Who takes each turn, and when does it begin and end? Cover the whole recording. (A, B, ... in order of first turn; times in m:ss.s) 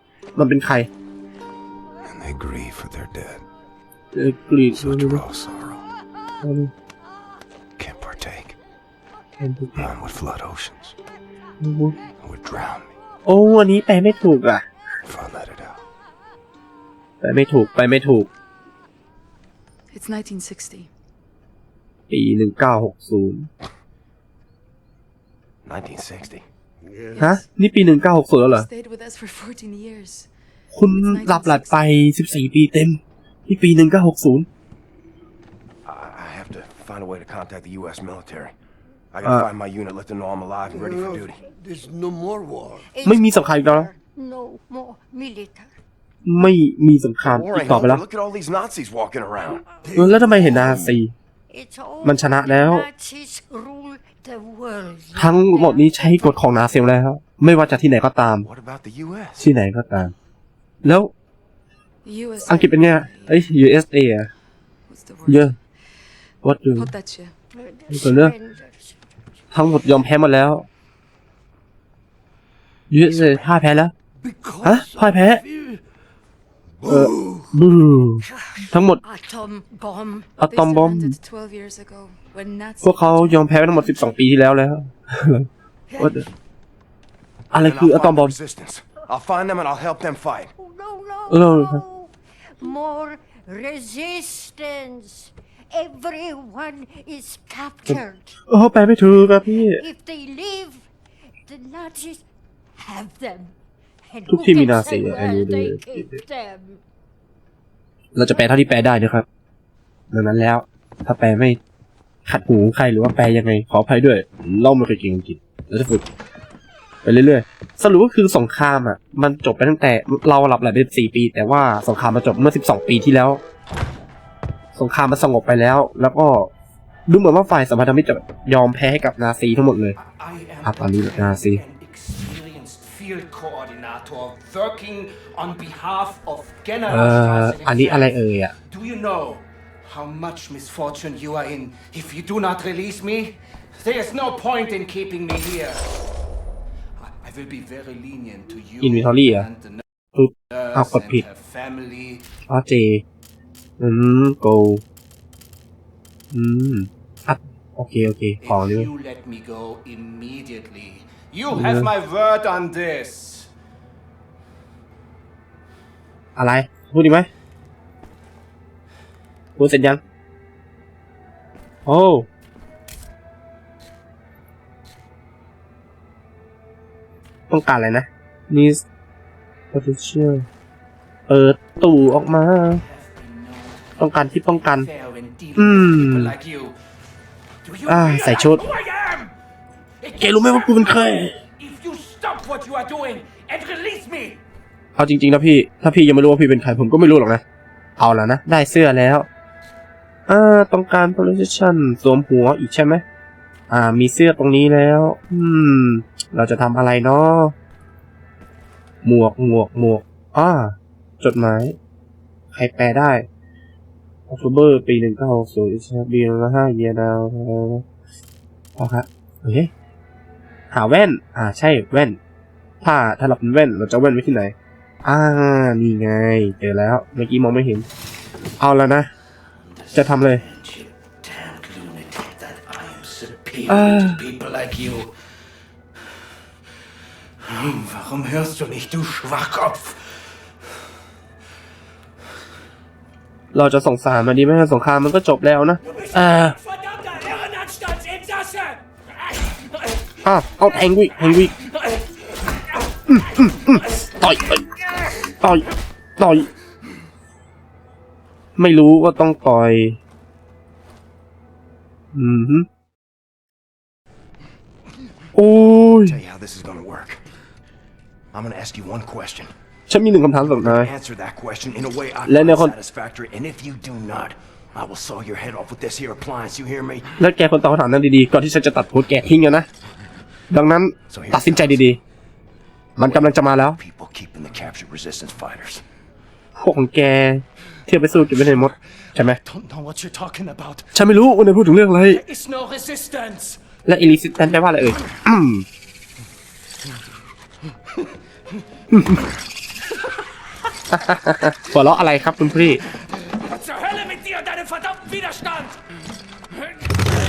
0:00.4-0:00.9 A
0:02.0-0:03.5 B
0:04.1-0:05.2 A
0:04.7-0:05.9 B
0:06.4-0:06.7 A
0:07.8-0:08.6 B
0:09.4-0:09.9 A
0:09.8-0:11.0 B
0:11.6-0:12.0 A
0:12.2-0:13.0 B
0:13.2-0:14.7 A
0:15.0-0:15.8 B
0:17.2-0:18.3 A
0:19.9-0:20.9 C
0:22.1-0:23.5 A
0:25.6-0:26.5 B
0:26.8-0:27.3 D
0:27.1-0:27.5 C
0:27.2-0:28.7 A
0:28.5-0:30.3 C
0:30.7-0:34.5 A
0:30.8-0:31.9 C
0:35.8-0:38.6 B
0:39.1-0:41.4 B
0:40.7-0:42.9 D
0:42.9-0:45.7 E
0:43.0-0:43.9 A
0:46.2-0:48.0 A
0:47.3-0:49.7 B
0:49.8-0:51.0 D
0:50.0-0:51.1 A
0:51.5-0:56.8 E
0:52.0-0:52.9 A
0:55.2-0:58.5 A
0:58.4-0:59.5 B
0:59.4-1:00.1 A
1:00.8-1:01.1 A
1:02.0-1:03.6 C
1:02.4-1:04.3 A
1:04.9-1:05.6 C
1:05.3-1:05.5 A
1:06.4-1:06.9 A
1:06.7-1:07.3 C
1:07.5-1:09.9 E
1:07.9-1:08.3 A
1:09.5-1:10.7 A
1:12.9-1:13.9 A
1:13.2-1:13.4 D
1:14.2-1:15.8 D
1:14.6-1:15.4 A
1:16.8-1:17.5 D
1:16.9-1:19.0 A
1:18.2-1:20.3 E
1:20.4-1:21.2 A
1:20.5-1:24.2 C
1:22.8-1:25.5 A
1:25.9-1:26.3 E
1:26.0-1:26.2 A
1:27.5-1:28.4 A
1:27.5-1:30.5 B
1:30.6-1:38.4 E
1:31.3-1:31.8 A
1:37.9-1:39.8 A
1:39.2-1:40.9 E
1:41.4-1:42.3 E
1:42.8-1:46.8 E
1:44.3-1:46.2 A
1:48.2-1:49.3 A
1:50.1-1:51.6 A
1:52.3-1:56.0 A
1:57.0-2:03.4 A
2:04.8-2:06.5 A
2:07.1-2:10.0 A
2:10.0-2:25.9 F
2:10.6-2:11.6 A
2:16.9-2:18.5 A
2:27.0-2:29.8 F
2:28.8-2:29.5 A
2:30.2-2:31.2 A
2:30.5-2:32.3 F
2:32.5-2:33.0 A
2:33.8-2:34.8 A
2:36.3-2:38.9 A
2:38.4-2:43.5 F
2:41.5-2:41.9 A
2:46.4-2:47.3 A
2:49.6-2:50.0 A
2:51.9-2:52.3 A
2:57.5-2:58.8 A
2:59.7-3:00.5 A
3:01.3-3:02.8 A
3:02.8-3:06.8 F
3:04.0-3:04.9 A
3:05.6-3:06.3 A
3:07.6-3:09.3 F
3:07.9-3:08.6 A
3:10.0-3:14.4 F
3:10.2-3:11.4 A
3:15.0-3:17.4 A
3:18.0-3:19.3 A
3:20.3-3:23.0 A
3:23.7-3:27.5 A
3:29.0-3:31.8 A
3:32.5-3:33.3 A
3:34.3-3:37.8 A
3:38.8-3:39.7 A
3:40.7-3:42.2 A
3:42.8-3:44.5 A
3:45.0-3:47.9 A
3:48.6-3:49.1 A
3:49.6-3:55.2 F
3:49.9-3:50.4 A
3:53.7-3:54.2 A
3:57.4-4:00.5 F
4:03.5-4:06.6 A
4:05.8-4:14.7 F
4:10.2-4:11.5 A
4:13.1-4:14.6 A
4:15.4-4:15.7 A
4:16.2-4:16.5 A
4:18.6-4:20.0 A
4:22.1-4:22.7 A
4:25.4-4:26.2 A
4:25.9-4:27.2 B
4:28.3-4:29.5 B
4:29.9-4:30.9 A
4:30.5-4:37.1 B
4:32.3-4:32.7 A
4:37.2-4:39.7 A
4:40.5-4:42.0 A
4:41.1-4:41.8 B
4:43.0-4:43.8 A
4:43.8-4:45.8 B
4:46.6-4:49.4 A
4:49.4-4:50.9 F
4:50.9-4:52.2 A
4:52.1-4:53.6 F
4:53.9-4:55.7 A
4:57.9-4:59.2 F
4:58.9-4:59.2 A
4:59.9-5:00.2 F
5:00.9-5:02.8 A
5:01.1-5:01.5 F
5:02.6-5:05.9 F
5:06.5-5:07.1 F